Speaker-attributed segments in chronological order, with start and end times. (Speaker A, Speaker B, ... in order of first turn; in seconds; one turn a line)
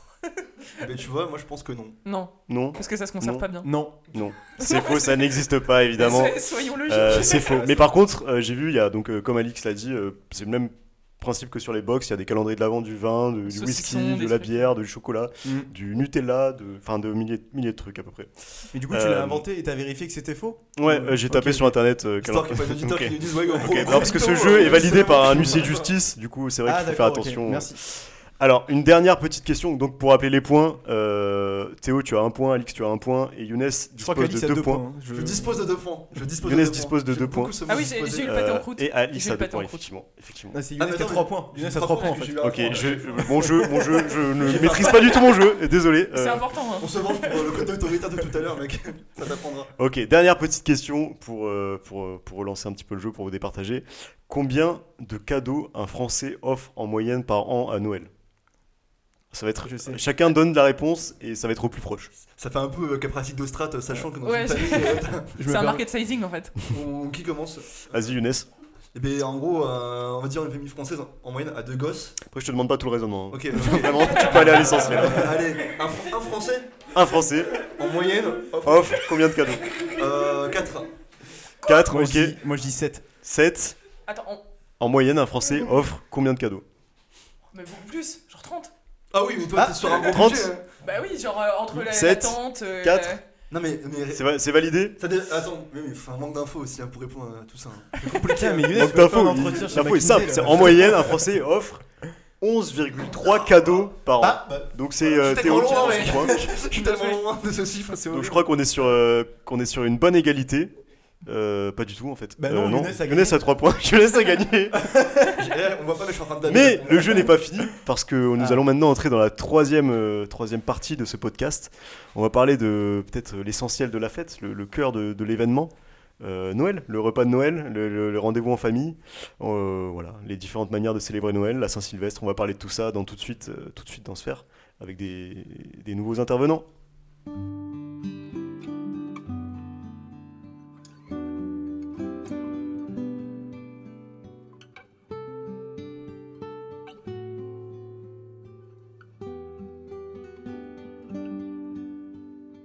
Speaker A: 0.8-2.0
Speaker B: 2.0-3.8
Speaker C: 2.5-3.5
Speaker D: 3.6-4.1
Speaker C: 4.1-19.4
Speaker B: 4.6-5.3
Speaker B: 5.9-7.8
Speaker A: 7.1-7.7
Speaker B: 13.4-14.7
Speaker D: 15.4-15.7
Speaker D: 18.7-21.8
Speaker C: 20.8-34.8
Speaker A: 22.2-25.9
Speaker D: 24.2-25.4
Speaker D: 26.6-27.8
Speaker D: 34.0-35.7
Speaker A: 35.1-38.4
Speaker C: 36.4-37.5
Speaker B: 37.6-39.9
Speaker C: 38.2-40.6
Speaker D: 40.5-42.9
Speaker A: 40.8-45.5
Speaker B: 41.9-42.2
Speaker C: 42.4-46.5
Speaker B: 46.1-47.8
Speaker A: 46.8-49.7
Speaker C: 49.8-58.1
Speaker C: 59.3-62.1
Speaker D: 59.6-60.0
Speaker A: 62.2-65.4
Speaker B: 64.1-66.6
Speaker D: 65.4-65.8
Speaker A: 66.7-67.8
Speaker C: 67.9-68.5
Speaker A: 68.9-72.2
Speaker C: 72.3-75.4
Speaker A: 73.3-76.7
Speaker C: 76.9-77.7
Speaker A: 77.7-79.0
Speaker C: 78.6-79.6
Speaker A: 79.9-80.9
Speaker C: 81.6-82.4
Speaker D: 81.9-83.1
Speaker C: 83.2-83.8
Speaker B: 84.0-84.4
Speaker C: 84.8-86.6
Speaker B: 87.5-88.7
Speaker A: 89.1-90.7
Speaker D: 89.5-89.9
Speaker C: 90.0-90.5
Speaker B: 90.7-93.2
Speaker C: 91.7-93.1
Speaker A: 93.5-94.3
Speaker C: 94.1-95.0
Speaker A: 95.0-98.9
Speaker D: 98.3-101.1
Speaker C: 98.7-101.8
Speaker A: 100.6-100.8
Speaker C: 102.4-106.4
Speaker D: 104.2-104.7
Speaker A: 105.0-108.4
Speaker D: 105.3-106.1
Speaker B: 106.5-107.3
Speaker C: 108.1-110.7
Speaker C: 111.2-114.9
Speaker D: 112.4-113.4
Speaker D: 114.8-115.2
Speaker A: 115.3-117.4
Speaker C: 116.5-136.7